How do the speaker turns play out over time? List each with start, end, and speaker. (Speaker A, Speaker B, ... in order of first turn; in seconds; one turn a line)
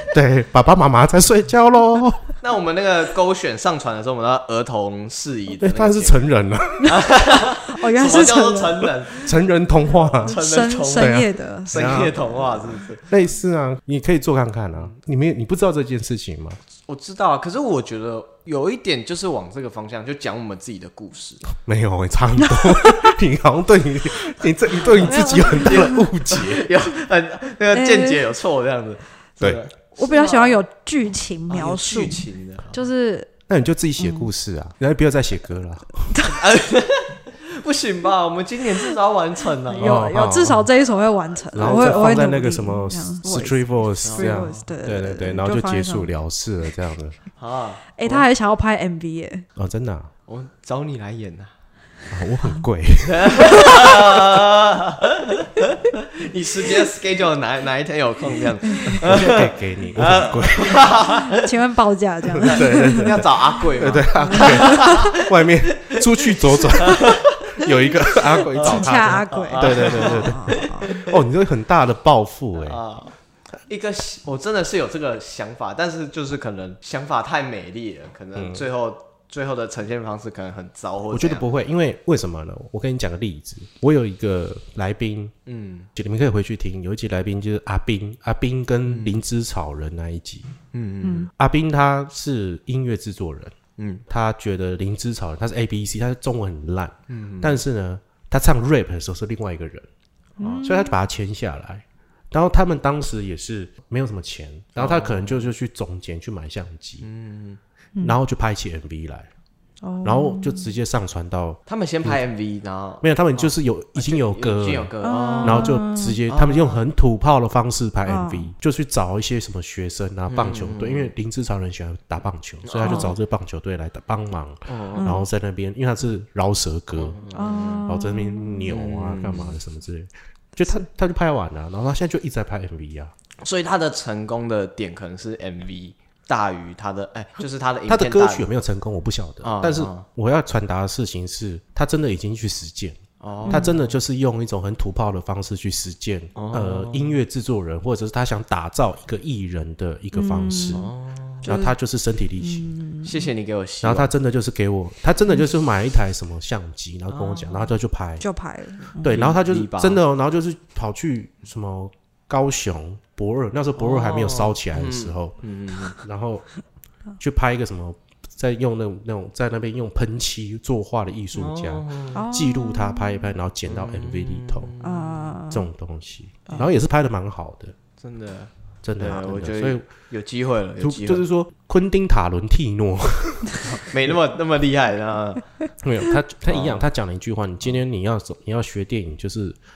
Speaker A: 0.1-2.3
Speaker B: 2.4-6.2
Speaker A: 5.6-7.0
Speaker B: 6.8-9.3
Speaker C: 7.7-9.1
Speaker A: 9.2-10.4
Speaker B: 9.9-13.1
Speaker C: 10.2-12.2
Speaker A: 10.9-12.3
Speaker A: 13.1-16.6
Speaker B: 16.9-21.4
Speaker A: 21.6-26.7
Speaker C: 22.4-23.1
Speaker C: 25.0-26.0
Speaker B: 25.4-30.6
Speaker C: 27.7-28.3
Speaker C: 29.9-33.3
Speaker B: 31.5-32.9
Speaker A: 33.5-36.2
Speaker C: 34.0-34.3
Speaker B: 36.2-40.1
Speaker C: 39.7-46.1
Speaker A: 39.8-40.7
Speaker B: 41.5-42.0
Speaker A: 41.5-47.2
Speaker B: 44.0-44.7
Speaker B: 47.4-48.3
Speaker C: 48.0-49.5
Speaker A: 49.5-50.1
Speaker B: 50.3-51.5
Speaker A: 52.1-54.2
Speaker B: 53.0-61.5
Speaker A: 58.9-60.9
Speaker C: 61.3-63.2
Speaker A: 62.4-72.8
Speaker B: 62.4-71.1
Speaker C: 64.1-65.1
Speaker C: 68.6-71.0
Speaker B: 72.5-73.2
Speaker B: 73.7-81.5
Speaker A: 78.3-78.6
Speaker A: 81.1-85.3
Speaker B: 85.5-85.9
Speaker A: 85.9-90.5
Speaker B: 88.8-89.2
Speaker B: 90.7-91.3
Speaker C: 91.0-91.3
Speaker A: 91.3-93.5
Speaker B: 93.8-94.0
Speaker A: 94.1-99.9
Speaker B: 97.1-97.6
Speaker B: 100.4-100.7
Speaker C: 100.4-100.9
Speaker A: 100.6-107.0
Speaker B: 104.8-105.5
Speaker B: 107.0-107.6
Speaker A: 108.0-109.3
Speaker C: 109.8-110.7
Speaker A: 110.0-112.2
Speaker B: 111.7-116.8
Speaker A: 113.0-114.9
Speaker C: 115.0-116.2
Speaker A: 115.4-127.2
Speaker C: 118.1-118.5
Speaker B: 120.3-121.1
Speaker B: 122.6-123.1
Speaker C: 122.8-123.1
Speaker B: 124.7-125.2
Speaker C: 125.0-125.2
Speaker B: 127.0-127.9
Speaker C: 127.3-128.8
Speaker A: 127.7-133.1
Speaker B: 128.7-129.6
Speaker B: 133.4-138.5
Speaker A: 137.9-150.8
Speaker B: 139.4-140.1
Speaker B: 143.2-143.8
Speaker C: 143.5-143.8
Speaker B: 146.3-147.2
Speaker C: 150.1-150.9
Speaker B: 150.7-151.6
Speaker C: 151.4-151.7
Speaker A: 151.4-152.7
Speaker C: 152.4-153.3
Speaker B: 153.0-154.1
Speaker A: 153.8-158.2
Speaker B: 157.1-157.7
Speaker C: 158.2-159.2
Speaker A: 159.0-165.3
Speaker B: 159.1-160.0
Speaker B: 163.8-166.0
Speaker A: 165.9-166.4
Speaker A: 167.2-174.7
Speaker B: 171.3-172.2
Speaker C: 172.1-173.3
Speaker B: 173.7-175.3
Speaker C: 174.8-175.7
Speaker A: 175.5-177.7
Speaker B: 178.0-181.2
Speaker A: 178.8-179.8
Speaker A: 180.8-183.8
Speaker B: 183.6-185.4
Speaker A: 185.8-189.6
Speaker B: 186.5-186.9